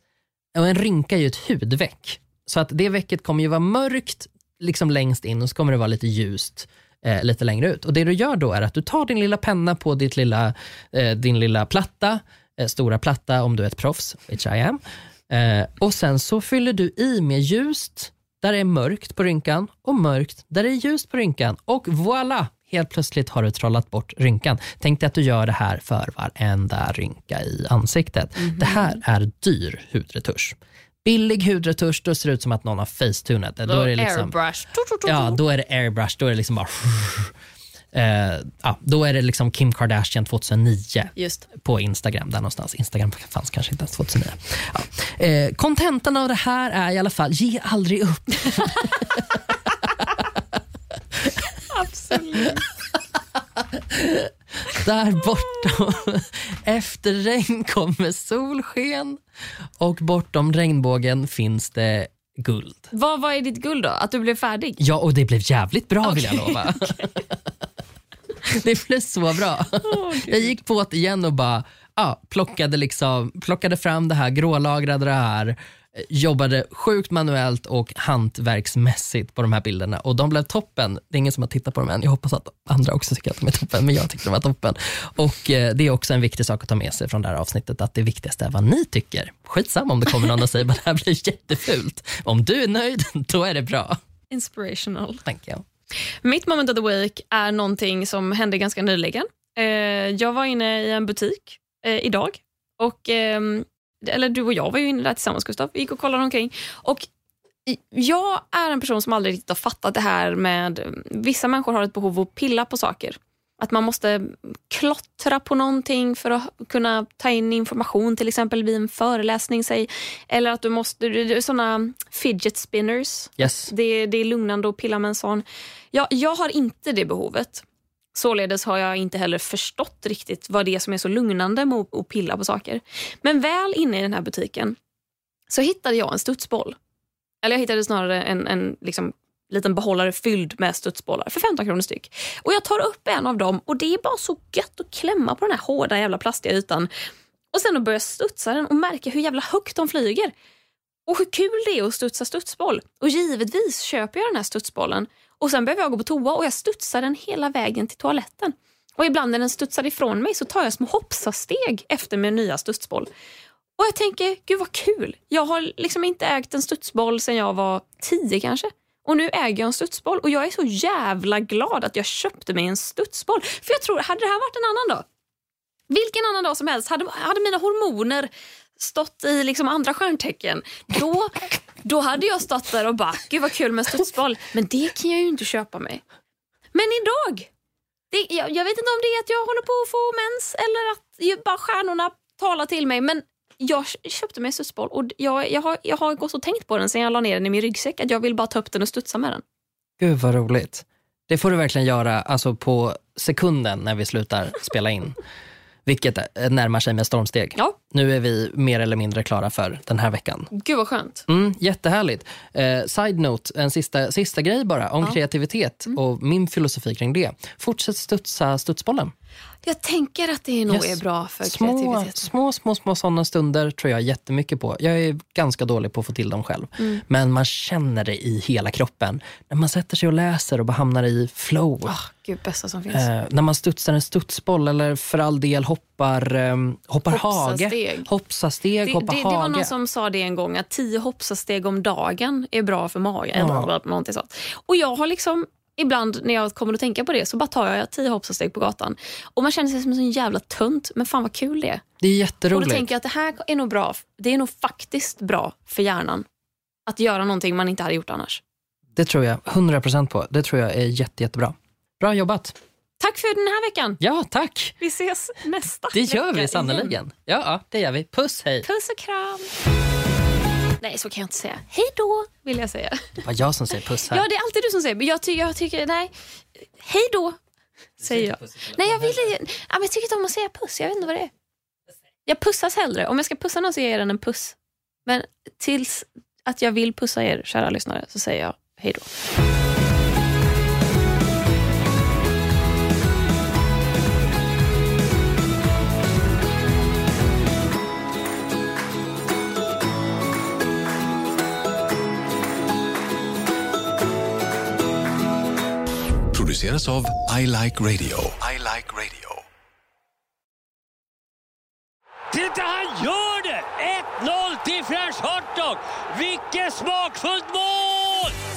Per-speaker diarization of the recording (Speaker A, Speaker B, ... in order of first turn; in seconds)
Speaker A: 0.5-34.3, 35.0-37.3, 37.9-50.4, 53.6-59.2, 59.8-62.9, 64.8-67.5, 68.4-94.0, 95.2-95.6, 123.4-123.7, 200.0-205.2, 205.8-210.5, 211.3-219.1, 220.7-232.0, 232.9-239.7, 243.3-243.7, 252.0-252.9, 258.9-262.5, 264.0-264.8, 265.9-268.6, 273.2-274.2
Speaker B: 28.4-28.9, 33.7-35.4, 41.1-41.5, 51.7-52.6, 62.9-64.8, 66.0-67.0, 69.8-70.5, 94.3-95.2, 96.2-107.1, 107.7-134.8, 135.5-136.8, 137.4-146.9, 147.5-150.3, 151.1-163.1, 163.8-175.0, 175.9-186.0, 186.7-187.5, 188.1-199.4, 210.5-211.2, 219.6-222.3, 231.8-233.1, 237.1-238.1, 238.8-251.8, 252.5-256.2, 256.9-258.4, 263.0-264.0, 264.8-267.0, 268.6-269.5, 270.8-273.2, 274.1-276.1, 276.8-277.4, 278.0-281.3, 282.3-289.1
Speaker C: 306.3-309.4
Speaker D: 312.3-318.4